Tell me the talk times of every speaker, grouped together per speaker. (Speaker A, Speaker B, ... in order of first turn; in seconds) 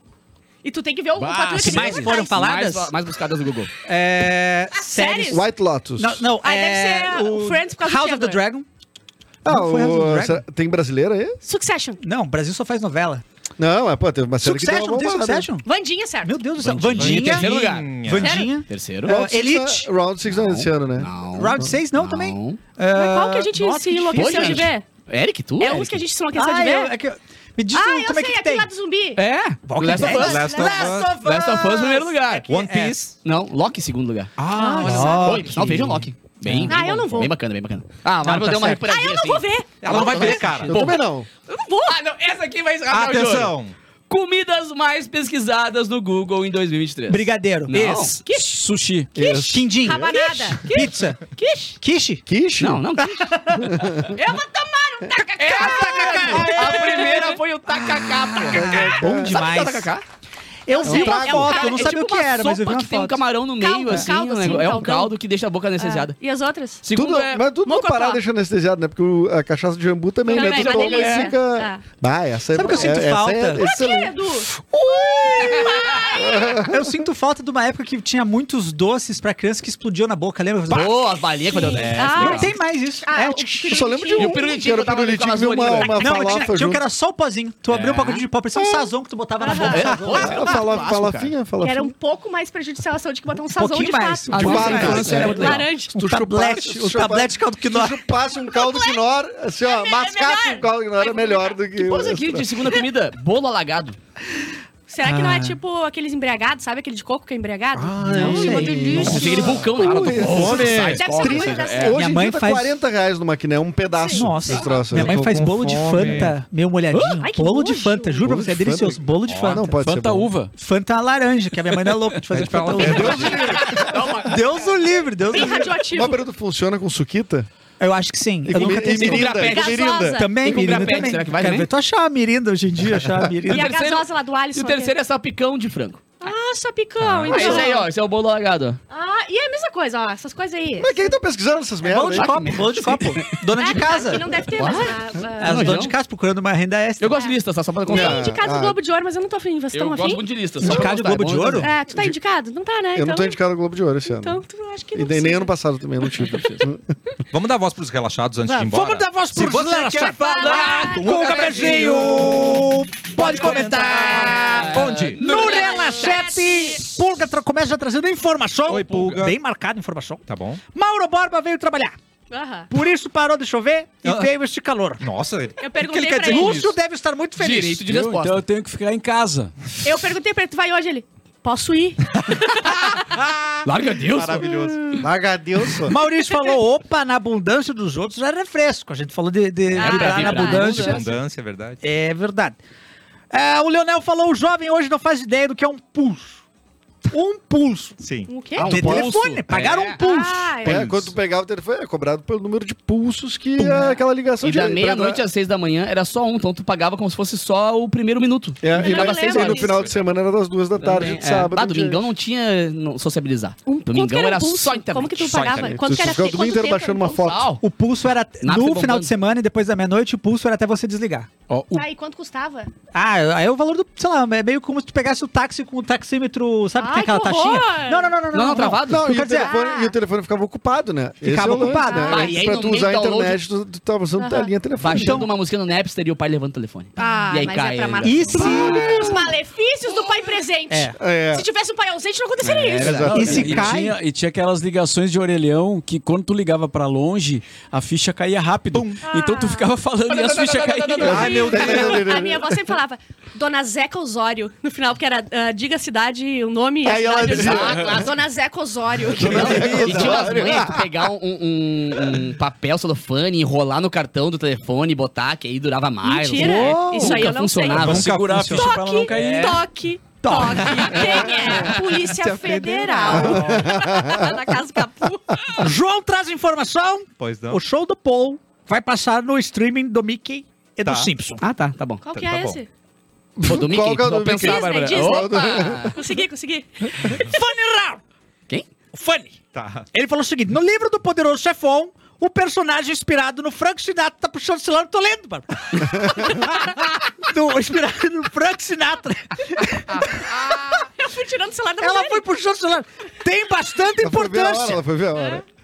Speaker A: 0.6-2.4, 4.7-5.4, 6.4-8.4, 11.4-12.0, 15.6-16.3, 18.2-18.5, 22.9-24.8, 25.6-26.9, 27.7-29.2, 36.7-37.3, 38.8-40.8, 41.5-42.0, 48.2-48.6, 49.2-51.8, 54.1-57.4, 60.7-62.0, 63.6-65.2, 65.8-66.8, 67.6-68.2, 70.3-71.8, 72.6-73.0, 73.6-74.5, 75.4-76.5, 81.5-84.5, 89.4-90.3, 91.6-95.9, 98.4-99.0, 99.6-101.6, 104.9-109.6, 110.2-112.0, 113.9-114.2, 117.2-118.2, 125.3-126.2, 129.0-130.7, 133.5-134.9, 136.2-137.9, 138.9-141.1, 143.6-145.8, 147.9-150.2, 151.6-153.4, 154.1-155.5, 160.2-161.7, 165.1-166.8, 172.3-172.7, 175.6-176.7, 179.8-183.0, 189.7-190.9, 198.3-198.7, 200.0-200.8, 208.7-209.9, 213.7-217.3, 221.7-222.7, 226.8-228.1, 229.3-229.9, 231.7-232.3, 234.2-234.5, 237.0-243.1, 249.1-249.7, 251.0-259.9, 266.0-275.7, 282.0-282.7, 284.3-287.3, 300.3-302.3
Speaker B: 1.2-3.7, 16.9-18.0, 18.7-19.1, 20.3-22.6, 24.1-26.0, 29.2-32.5, 33.2-34.3, 34.9-39.4, 40.0-41.0, 41.9-43.5, 44.1-48.2, 52.6-53.3, 55.4-60.0, 61.5-66.2, 66.8-67.4, 70.3-71.3, 80.7-82.5, 84.2-86.4, 87.7-88.3, 89.5-91.3, 94.3-95.7, 101.8-104.0, 108.2-112.0, 114.5-114.8, 122.8-124.8, 128.6-129.8, 130.4-131.7, 133.4-136.0, 137.3-138.8, 142.1-144.0, 144.5-145.9, 147.0-148.3, 149.7-151.7, 156.2-156.7, 160.4-161.6, 164.0-166.2, 176.3-176.7, 177.4-178.4, 183.6-184.5, 189.7-191.0, 198.6-200.0, 204.4-209.8, 210.8-215.4, 217.2-217.6, 218.4-219.1, 228.3-229.1, 232.1-233.4, 234.8-238.7, 242.4-243.7, 250.1-252.0, 257.2-258.1, 259.2-268.2, 281.4-282.0, 283.4-285.9
Speaker C: 1.6-2.9, 3.8-5.5, 6.0-8.7, 9.4-10.4, 12.0-13.2, 14.4-15.7, 16.2-19.9, 21.4-24.7, 26.3-28.7, 29.6-33.0, 34.5-36.8, 38.2-38.9, 39.9-40.7, 47.1-48.3, 49.2-51.3, 51.8-52.2, 53.0-53.7, 55.2-59.9, 60.7-63.2, 63.9-64.5, 72.5-73.7, 76.5-84.0, 85.8-90.6, 93.5-98.0, 105.0-105.6, 108.0-109.6, 111.9-112.7, 114.1-119.7, 120.5-125.8, 127.8-129.4, 130.1-133.7, 141.8-147.3, 150.6-151.7, 158.5-171.9, 172.7-175.0, 176.2-177.8, 185.8-191.1, 191.8-192.6, 193.3-196.4, 197.1-198.0, 198.6-200.6, 217.6-221.3, 222.9-229.5, 231.2-232.3, 238.0-239.0, 240.7-240.9, 243.1-244.0, 269.1-269.4, 270.2-271.6, 273.0-273.6, 275.6-281.4, 287.1-288.0, 288.9-289.4, 289.9-300.9, 301.8-304.8
Speaker D: 5.3-6.2, 9.4-11.4, 13.6-15.5, 19.0-21.7, 40.6-41.3, 49.1-50.2, 52.3-52.9, 53.5-54.1, 58.5-59.7, 60.8-61.7, 66.9-77.1, 83.7-86.8, 88.5-88.8, 89.8-91.9, 94.3-102.6, 107.7-116.3, 118.2-120.3, 122.8-123.7, 125.9-127.5, 128.4-130.2, 137.3-137.7, 140.8-142.6, 147.9-148.8, 150.6-151.0, 151.9-152.2, 152.9-154.4, 154.9-156.9, 185.0-185.9, 198.6-199.2, 200.6-205.2, 208.6-212.0, 215.6-217.5, 228.8-235.3, 238.4-239.2, 241.0-241.5, 242.8-243.6, 251.0-252.6, 256.8-258.1, 259.1-261.0, 266.4-267.2, 272.9-274.4, 283.4-285.9, 295.9-296.2, 304.0-305.4
Speaker E: 16.6-18.4, 29.9-31.2, 32.5-33.2, 34.4-36.0, 39.8-40.9, 42.9-43.7, 114.7-116.3, 119.3-119.7, 122.3-123.8, 129.6-130.0, 137.0-137.5, 157.3-165.2, 168.7-169.4, 170.3-170.6, 174.0-174.3, 175.0-176.7, 182.3-185.1, 190.2-191.8, 198.0-198.3, 203.6-203.9, 215.2-215.8, 248.7-249.1, 251.3-251.7, 259.2-260.5, 267.7-268.8, 272.5-273.5, 277.2-277.6, 280.9-281.1, 282.1-282.6, 289.5-289.9
Speaker F: 48.3-49.2, 110.3-110.6, 119.7-120.5, 177.8-179.5, 221.5-221.8, 243.1-251.6, 266.4-267.0, 267.9-269.6